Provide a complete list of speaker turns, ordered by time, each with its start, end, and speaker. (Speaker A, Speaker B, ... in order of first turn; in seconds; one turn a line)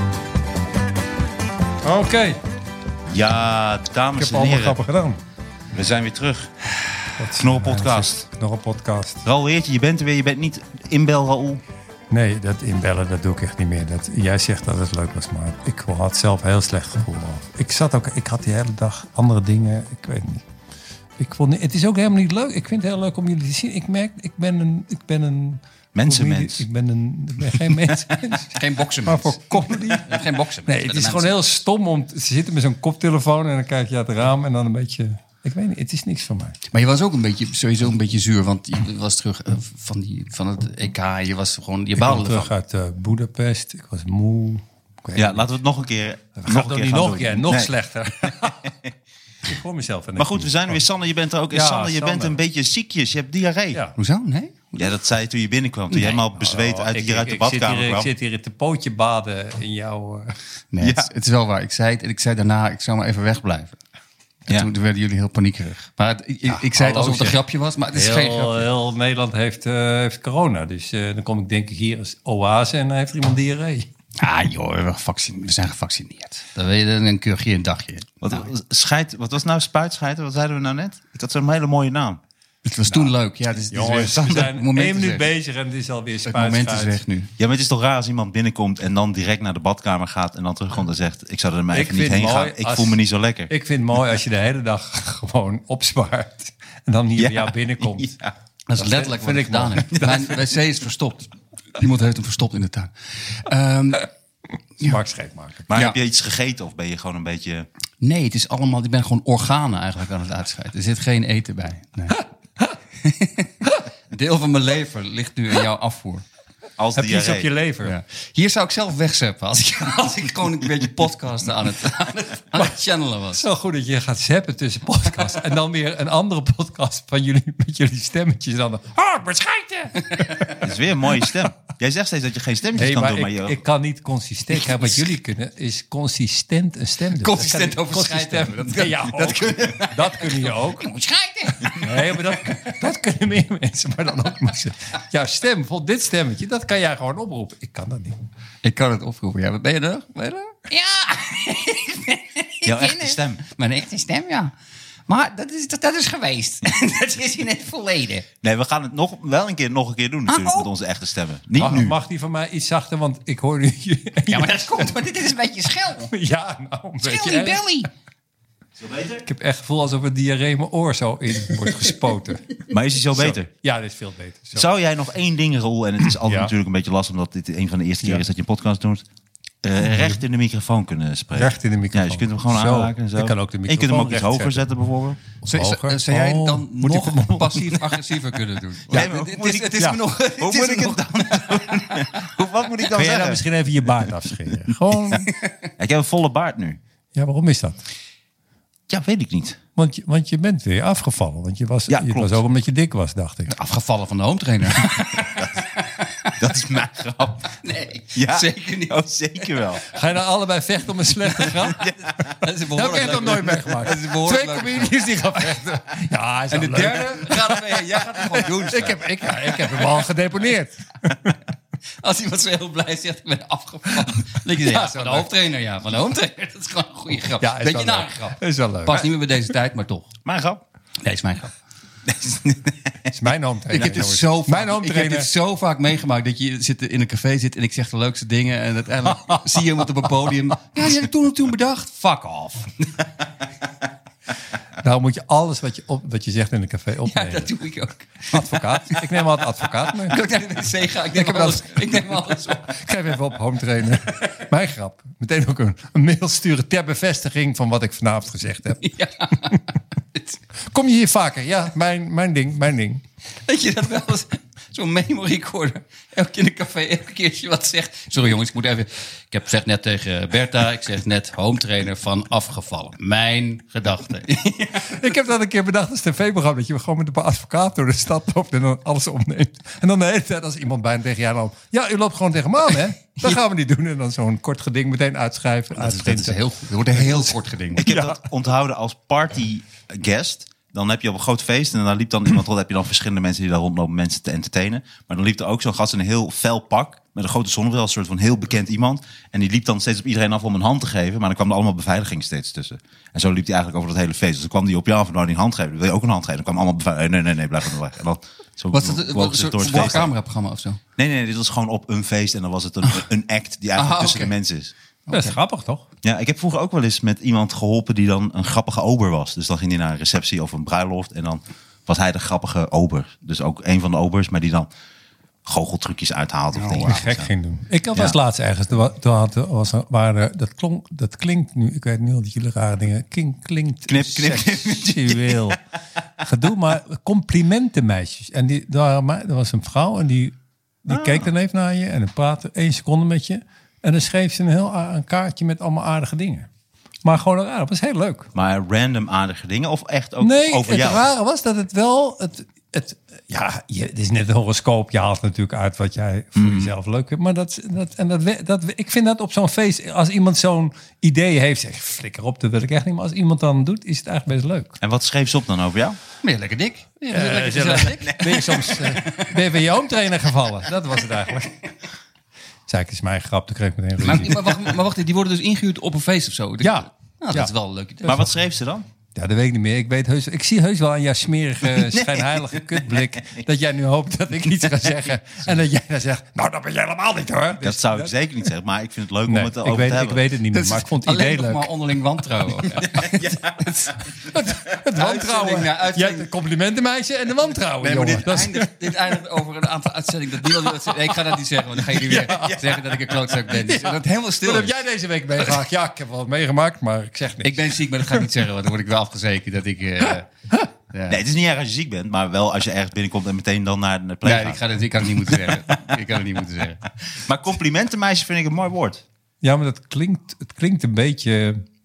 Speaker A: 1.8-2.4
Speaker B: 3.1-4.8
Speaker A: 4.1-5.2
Speaker B: 5.7-6.7
Speaker A: 7.2-9.2
Speaker B: 7.3-8.2
Speaker B: 9.2-11.6
Speaker A: 12.1-20.4
Speaker A: 21.2-36.6
Speaker B: 25.9-26.6
Speaker C: 28.5-31.3
Speaker C: 36.7-42.5
Speaker A: 42.0-45.5
Speaker B: 45.1-47.7
Speaker A: 46.4-48.7
Speaker B: 48.5-48.9
Speaker A: 49.4-50.8
Speaker B: 50.2-53.8
Speaker A: 51.5-52.4
Speaker C: 54.0-55.0
Speaker B: 54.8-58.1
Speaker C: 55.9-56.2
Speaker A: 56.4-60.4
Speaker C: 60.7-63.8
Speaker B: 60.8-61.0
Speaker C: 64.5-68.7
Speaker A: 66.5-67.4
Speaker A: 67.9-73.9
Speaker C: 74.2-78.5
Speaker B: 78.2-82.2
Speaker C: 82.6-85.3
Speaker A: 83.7-87.0
Speaker C: 86.2-87.3
Speaker B: 87.4-93.5
Speaker A: 91.7-98.1
Speaker B: 97.2-98.3
Speaker C: 98.7-104.1
Speaker A: 98.7-100.0
Speaker B: 99.9-100.3
Speaker A: 104.8-105.7
Speaker B: 105.7-107.7
Speaker C: 108.0-112.2
Speaker C: 113.0-116.2
Speaker B: 116.8-117.5
Speaker A: 117.0-117.9
Speaker C: 117.8-123.4
Speaker A: 123.3-130.7
Speaker C: 130.3-130.5
Speaker B: 130.6-133.6
Speaker A: 132.7-140.9
Speaker C: 137.2-142.3
Speaker A: 141.7-148.2
Speaker C: 148.6-154.5
Speaker B: 152.6-153.4
Speaker C: 155.1-158.2
Speaker B: 158.4-162.0
Speaker C: 160.3-160.7
Speaker A: 161.6-164.9
Speaker C: 164.3-166.1
Speaker A: 166.1-167.8
Speaker C: 167.0-167.9
Speaker B: 168.8-169.2
Speaker A: 169.2-172.6
Speaker B: 172.7-173.5
Speaker A: 173.1-174.7
Speaker B: 174.5-179.0
Speaker A: 176.0-176.5
Speaker B: 179.6-185.2
Speaker A: 181.3-184.7
Speaker C: 185.4-192.3
Speaker A: 185.5-187.8
Speaker B: 188.9-193.4
Speaker A: 192.9-195.3
Speaker C: 195.2-195.7
Speaker B: 195.8-196.8
Speaker A: 197.1-197.8
Speaker B: 198.9-199.6
Speaker A: 199.8-203.5
Speaker B: 201.9-202.4
Speaker C: 203.5-206.4
Speaker B: 206.4-207.6
Speaker C: 207.5-209.6
Speaker B: 208.1-209.9
Speaker A: 209.9-211.9
Speaker C: 211.4-215.8
Speaker A: 212.7-221.3
Speaker C: 216.5-220.1
Speaker C: 222.0-230.1
Speaker A: 224.6-225.2
Speaker A: 227.4-229.1
Speaker B: 230.2-230.6
Speaker C: 231.0-231.5
Speaker B: 232.1-233.1
Speaker A: 233.1-235.3
Speaker C: 233.7-242.9
Speaker A: 244.8-247.5
Speaker C: 247.0-249.1
Speaker A: 248.3-250.2
Speaker C: 250.0-252.8
Speaker A: 251.1-258.9
Speaker C: 258.8-260.4
Speaker A: 260.6-263.0
Speaker C: 263.4-274.9
Speaker A: 274.8-288.2
Speaker C: 285.7-287.9
Speaker B: 287.8-310.1
Speaker C: 308.7-310.8
Speaker B: 311.0-314.7
Speaker C: 313.8-314.3
Speaker C: 315.1-315.4
Speaker A: 315.1-315.9
Speaker B: 316.0-324.7
Speaker B: 325.4-327.3
Speaker C: 326.5-327.0
Speaker A: 326.8-335.6
Speaker B: 333.9-335.6
Speaker A: 336.2-346.5
Speaker B: 340.9-341.2
Speaker A: 347.0-348.3
Speaker B: 348.3-351.1
Speaker A: 350.2-364.8
Speaker B: 356.4-356.7
Speaker B: 364.8-366.0
Speaker C: 366.2-369.3
Speaker A: 367.1-371.6
Speaker A: 372.7-374.7
Speaker C: 374.0-378.2
Speaker A: 376.6-377.5
Speaker B: 378.0-378.8
Speaker A: 379.1-388.1
Speaker B: 381.7-383.4
Speaker B: 387.6-390.2
Speaker A: 389.2-391.7
Speaker C: 390.5-394.2
Speaker B: 392.9-393.6
Speaker A: 394.3-398.7
Speaker C: 394.9-396.3
Speaker C: 397.8-404.8
Speaker A: 401.9-402.6
Speaker A: 403.5-407.6
Speaker C: 407.4-410.3
Speaker C: 410.8-411.2
Speaker B: 411.1-414.6
Speaker C: 414.2-416.8
Speaker B: 417.1-419.0
Speaker A: 419.4-421.6